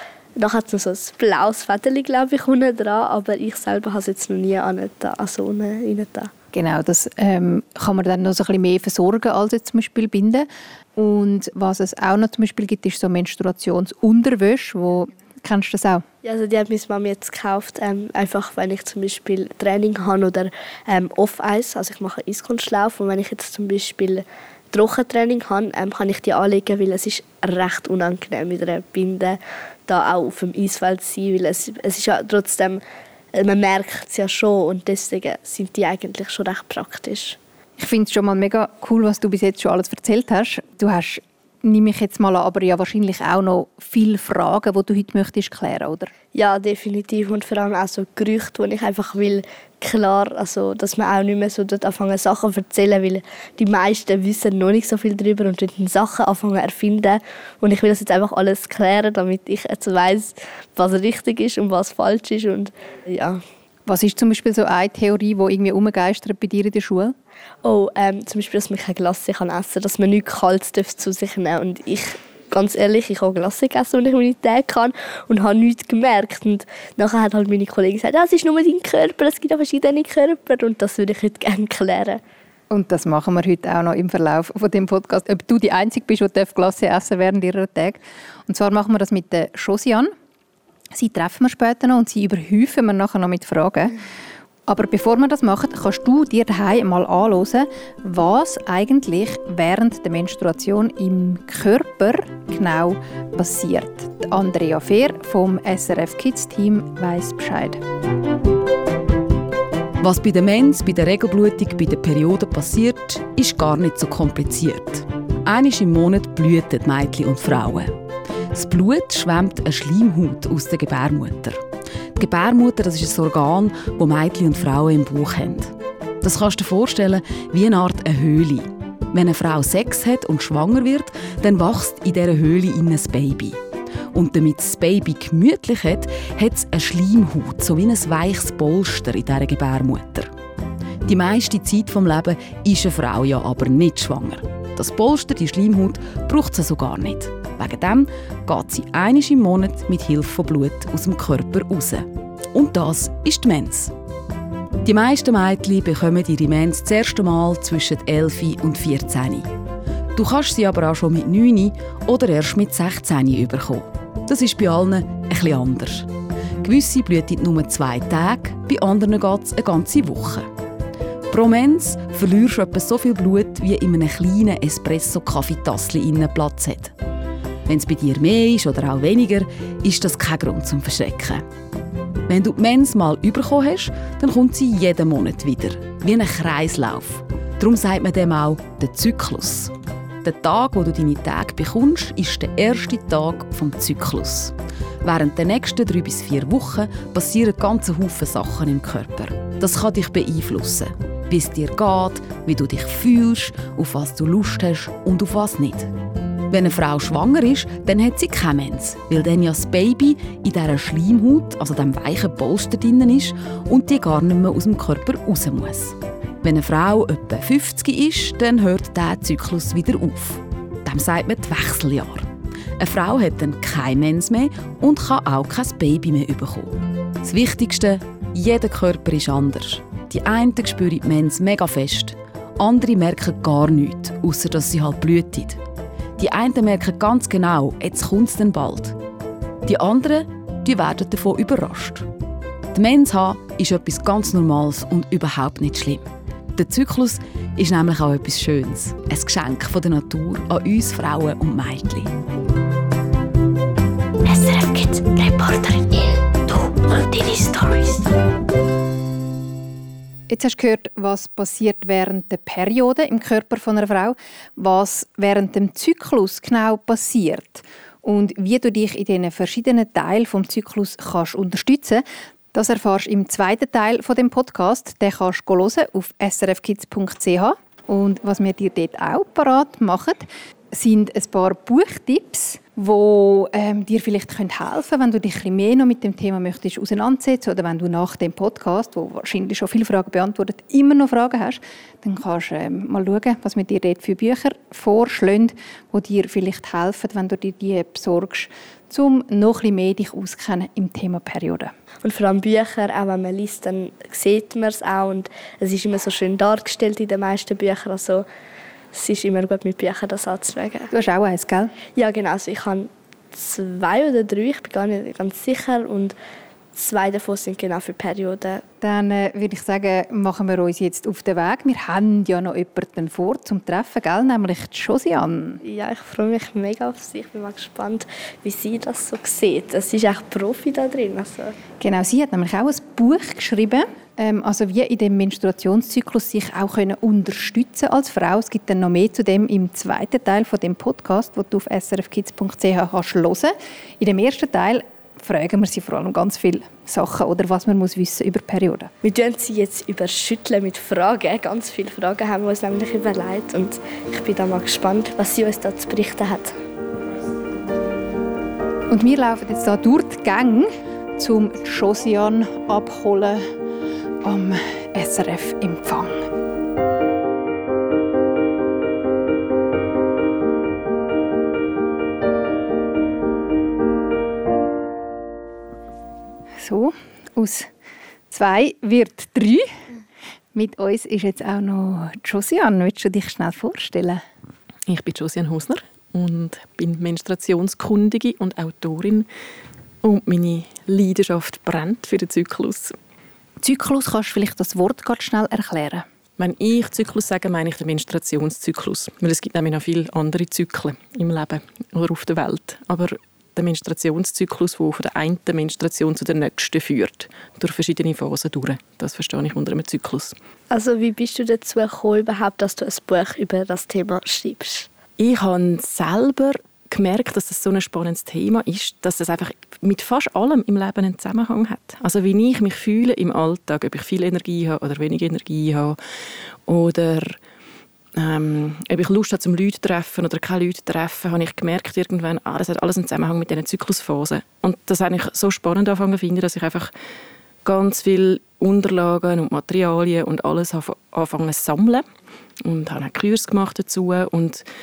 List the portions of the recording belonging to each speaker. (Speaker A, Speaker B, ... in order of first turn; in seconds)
Speaker A: 0.4-6.3, 16.2-32.8, 33.4-37.4, 46.3-63.4, 67.6-82.2, 302.0-308.3, 308.9-310.9, 312.0-316.2, 316.8-318.6, 325.6-331.6, 349.0-356.5, 410.7-414.9
Speaker B: 6.5-16.0, 37.8-46.1, 63.9-67.2, 82.7-90.1, 90.9-94.0, 94.7-107.8, 260.3-301.7, 310.9-311.7, 318.8-325.6, 331.8-348.9, 358.9-363.4, 364.2-366.2, 376.6-377.7, 378.3-379.7, 380.5-384.2, 393.6-396.1
Speaker C: 110.0-118.0, 118.5-121.6, 122.2-133.6, 134.1-140.3, 141.1-153.9, 154.8-159.5, 160.2-166.1, 166.6-170.5, 171.3-176.9, 177.7-181.4, 182.3-205.9, 206.5-222.3, 222.8-235.6, 236.2-239.0, 239.7-242.1, 242.7-246.0, 246.6-252.1
Speaker D: 254.2-258.1
Speaker E: 384.9-389.3, 390.0-393.0, 396.4-410.3, 415.2-426.0, 426.7-427.4, 428.2-436.9, 437.6-442.0, 442.6-444.6